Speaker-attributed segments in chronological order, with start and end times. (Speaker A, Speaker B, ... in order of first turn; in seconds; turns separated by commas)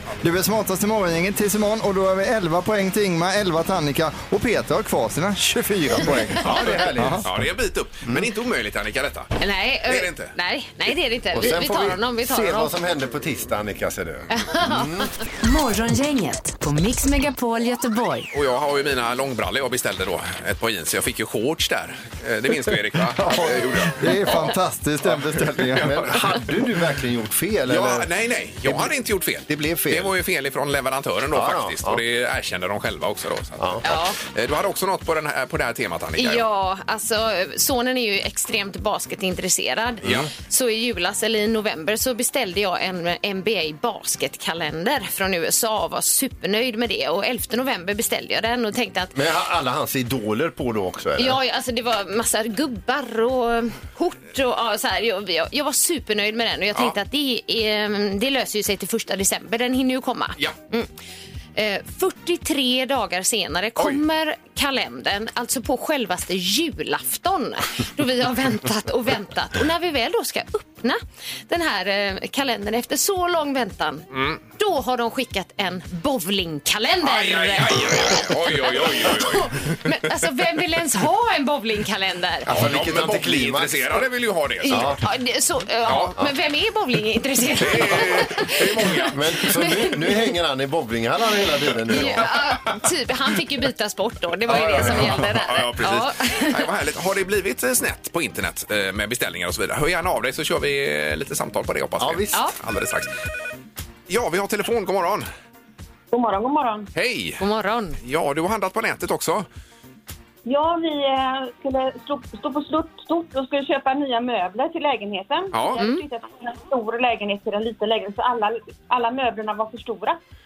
Speaker A: 0.2-7.3, Speaker B: 6.2-7.5, Speaker C: 6.4-6.8, Speaker D: 7.2-9.3, Speaker C: 9.4-12.7, Speaker D: 9.8-10.3, Speaker B: 11.3-15.1, Speaker C: 14.3-15.1, Speaker E: 15.4-18.3, Speaker D: 18.3-24.3, Speaker A: 23.2-26.0, Speaker D: 25.6-26.4, Speaker B: 25.7-28.1, Speaker D: 27.7-36.5, Speaker B: 28.6-28.9, Speaker B: 29.5-30.1, Speaker B: 31.3-32.0, Speaker C: 33.8-34.2, Speaker C: 36.2-49.1, Speaker B: 40.0-40.3, Speaker B: 49.1-51.4, Speaker C: 51.2-60.9, Speaker C: 61.6-82.5, Speaker D: 74.1-74.4, Speaker D: 77.0-79.8, Speaker B: 82.5-84.0, Speaker D: 82.5-85.0, Speaker C: 84.6-90.3, Speaker B: 84.7-85.0, Speaker D: 85.9-86.1, Speaker D: 87.6-89.2, Speaker B: 89.1-92.3, Speaker C: 91.9-96.7, Speaker D: 92.0-92.8, Speaker D: 94.5-103.1, Speaker B: 102.0-102.4, Speaker D: 104.1-105.3, Speaker F: 106.1-106.9, Speaker D: 107.0-107.4, Speaker C: 107.4-108.0, Speaker D: 108.0-109.5, Speaker F: 110.5-120.2, Speaker D: 115.5-115.8, Speaker C: 115.8-116.0